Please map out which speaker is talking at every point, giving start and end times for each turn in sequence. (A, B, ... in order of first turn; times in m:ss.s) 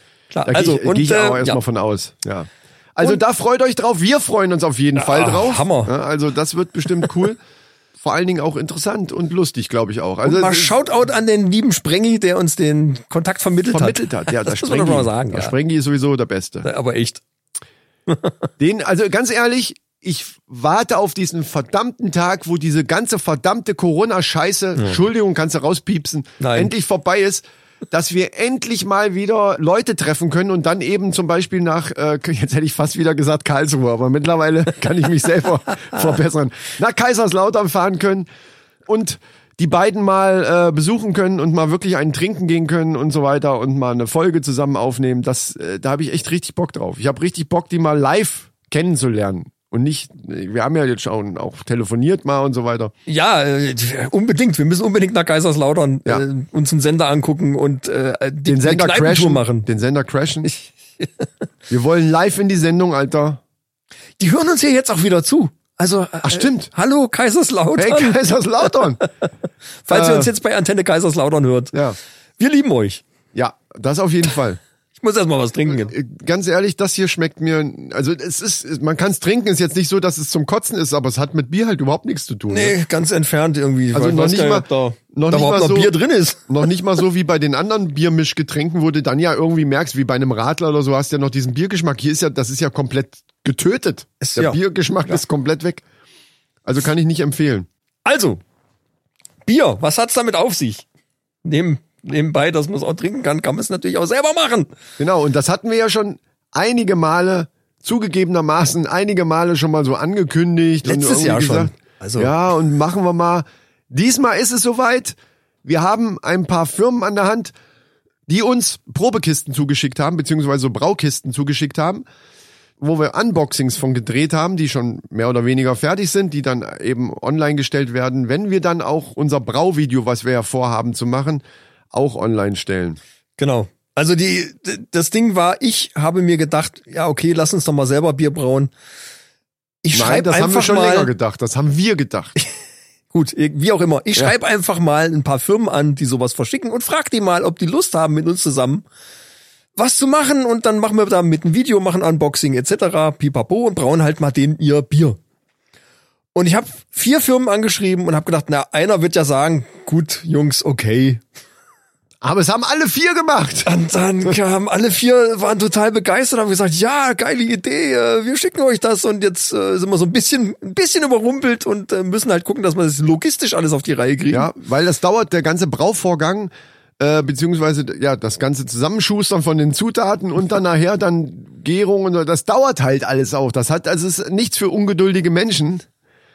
0:00.3-0:01.6 A
0:00.4-0:07.4 B
0:05.0-0:05.9 A
0:08.0-0:10.8 B
0:10.2-0:15.6 A
0:13.7-0:16.7 B
0:16.6-0:17.2 A
0:18.1-0:18.3 A
0:18.6-0:38.3 B
0:26.4-0:26.7 A
0:38.9-0:52.9 B
0:53.1-0:59.7 A
0:58.5-1:00.5 B
1:00.4-1:01.3 A
1:01.7-1:03.4 B
1:04.2-1:08.2 A
1:06.2-1:06.7 B
1:07.8-1:09.1 B
1:09.8-1:11.8 A
1:09.9-1:10.3 B
1:12.4-1:13.0 A
1:13.3-1:14.6 B
1:15.0-1:16.0 A
1:15.7-1:22.8 B
1:22.5-1:26.5 A
1:23.9-1:26.0 B
1:26.5-1:35.8 B
1:34.2-1:35.2 A
1:36.6-1:37.7 B
1:38.0-1:38.4 A
1:39.5-1:40.8 A
1:41.4-1:44.7 A
1:45.0-1:57.6 B
1:50.8-1:52.3 A
1:58.3-2:02.0 B
2:02.8-2:13.0 B
2:13.4-2:18.7 A
2:19.8-2:21.1 A
2:19.9-2:22.4 B
2:23.1-2:28.8 A
2:29.8-2:35.2 A
2:36.4-2:41.2 A
2:42.2-2:43.7 B
2:43.6-2:54.5 A
2:54.3-3:05.9 B